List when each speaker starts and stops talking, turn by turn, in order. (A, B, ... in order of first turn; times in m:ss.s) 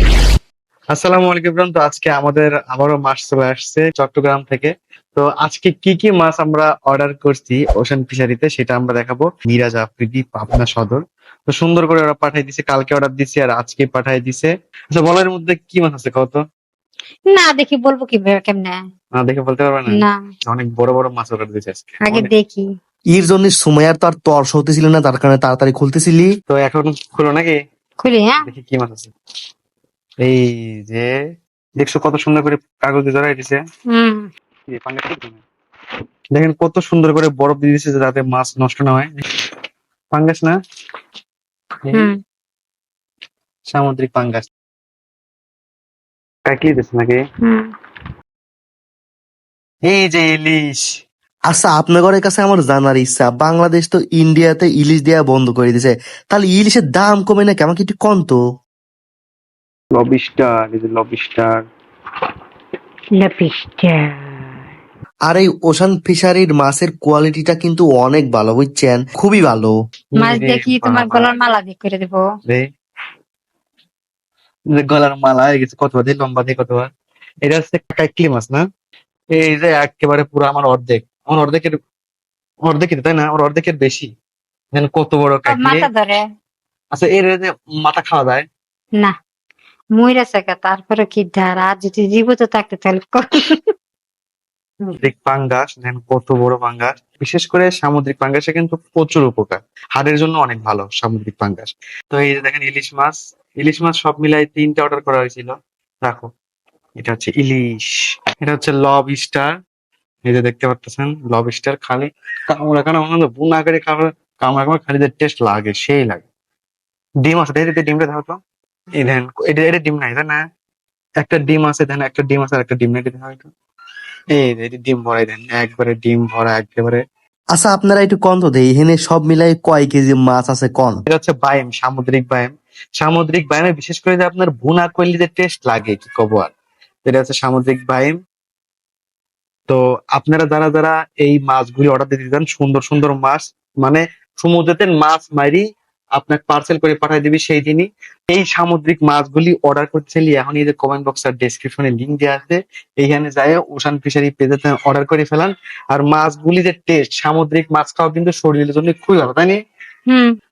0:00.9-0:16.4 A
0:17.3-0:18.8 B
0:19.2-0:22.3 A
0:22.1-0:22.6 B
0:23.1-0:26.3 C
0:26.5-0:27.6 A
0:28.0-0:28.4 B
0:28.4-0:29.1 A
0:30.2-0:31.1 A
0:31.8-0:33.6 A
0:33.9-0:34.3 B
0:34.7-0:35.4 A
0:36.3-0:39.2 A
0:40.1-0:40.6 A
0:43.7-0:44.5 A
0:46.5-0:47.2 A
0:47.4-0:47.7 B
0:49.9-0:50.9 A
0:51.5-0:58.4 C
0:59.9-1:01.6 A
1:03.2-1:04.3 B
1:05.3-1:09.7 C
1:10.2-1:11.3 A
1:10.2-1:12.2 B
1:14.7-1:16.9 A
1:17.4-1:18.6 A
1:19.4-1:21.8 A
1:22.7-1:24.1 A
1:24.8-1:25.8 A
1:25.5-1:26.2 B
1:26.9-1:28.5 A
1:30.0-1:33.7 B
1:35.0-1:45.5 A
1:46.0-1:46.3 A
1:47.0-1:49.5 A
1:50.3-1:56.2 A
1:57.2-1:58.4 A
1:59.0-2:00.4 A
2:01.2-2:03.5 A
2:04.3-2:07.0 A
2:07.6-2:11.0 C
2:11.1-2:16.5 A
2:17.1-2:18.2 A
2:19.7-2:25.6 A
2:26.2-2:39.6 A